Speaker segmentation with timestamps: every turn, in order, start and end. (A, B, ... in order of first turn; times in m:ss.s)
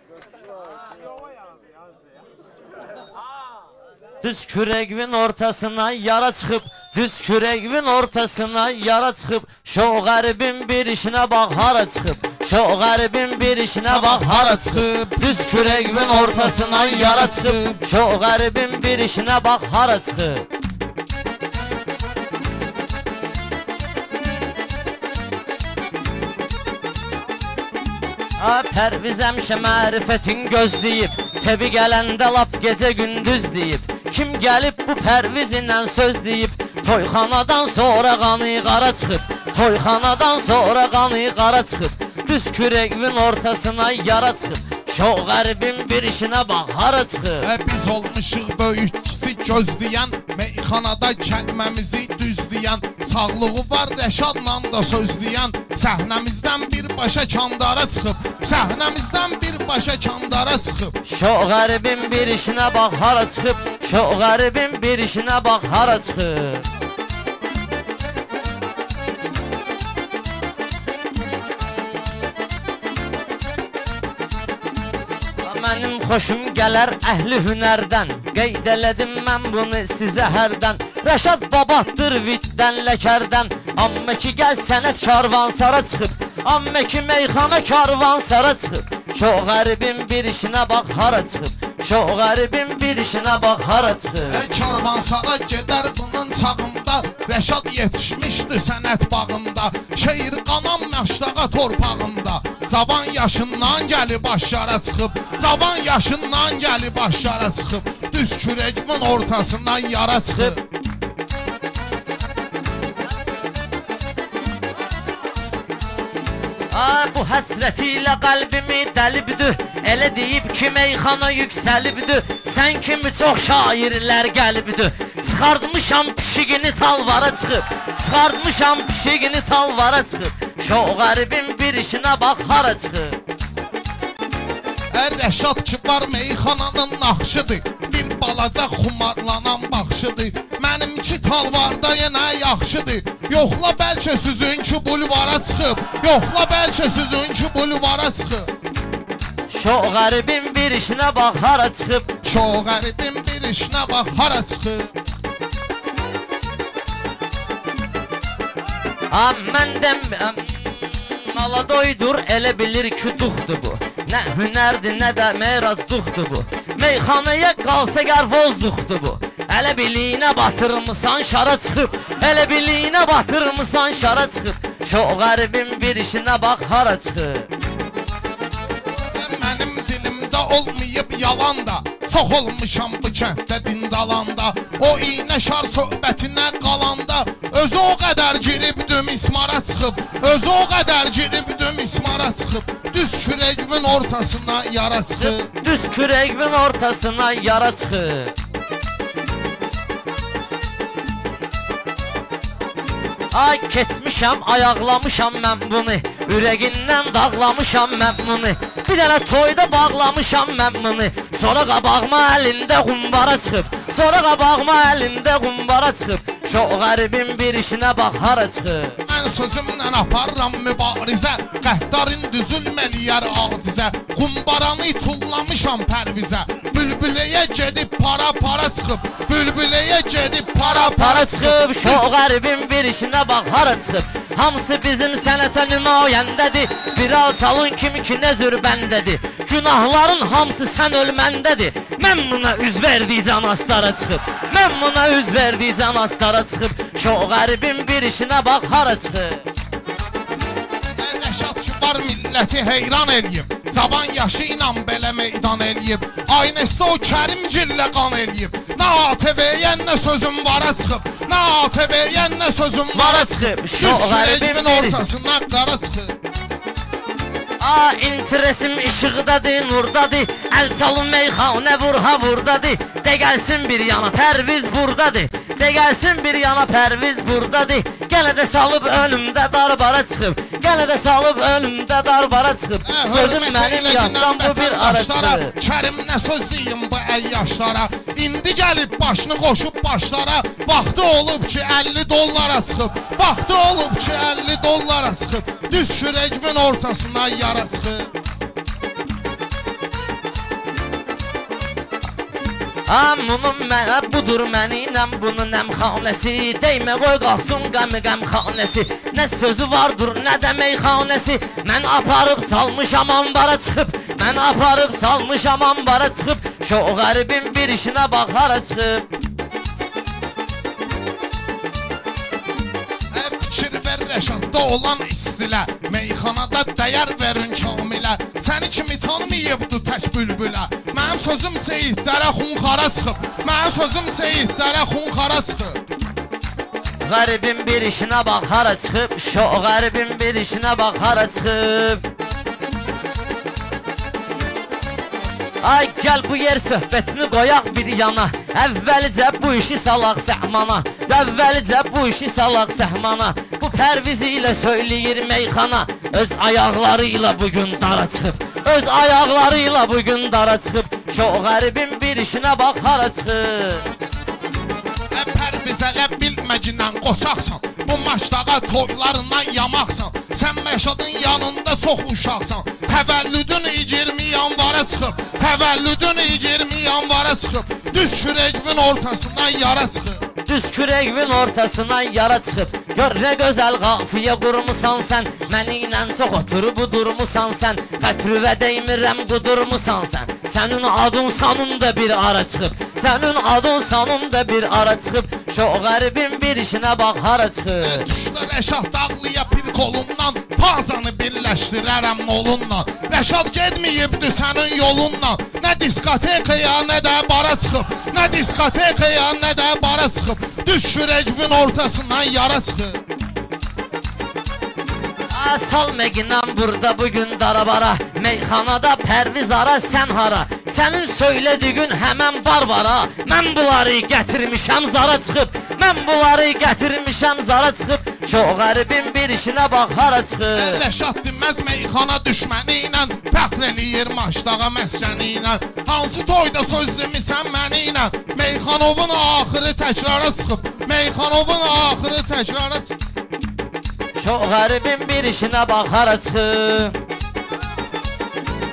0:04.2-0:20.4 A
0:13.9-0:17.8 B
0:28.4-0:47.5 A
0:47.4-1:00.9 B
1:01.0-1:06.7 A
1:15.4-1:34.4 A
1:34.3-1:50.6 B
1:56.7-2:13.2 A
2:14.9-2:28.5 B
2:29.5-2:32.1 A
2:32.2-2:34.9 B
2:39.1-2:57.5 A
2:59.1-3:15.5 B
3:15.2-3:18.3 A
3:23.3-3:39.0 A
3:39.1-3:52.0 B
3:50.6-4:09.5 A
4:11.0-4:26.1 B
4:22.9-4:25.0 A
4:27.6-4:45.5 A
4:42.8-4:58.1 B
5:02.8-5:19.1 A
5:23.1-5:35.8 B
5:37.0-5:42.0 A
5:45.6-6:03.9 A
6:05.1-6:20.2 B
6:20.4-6:38.1 A
6:37.8-6:53.0 B
6:55.3-7:10.8 A
7:10.5-7:22.9 B
7:24.2-7:27.0 A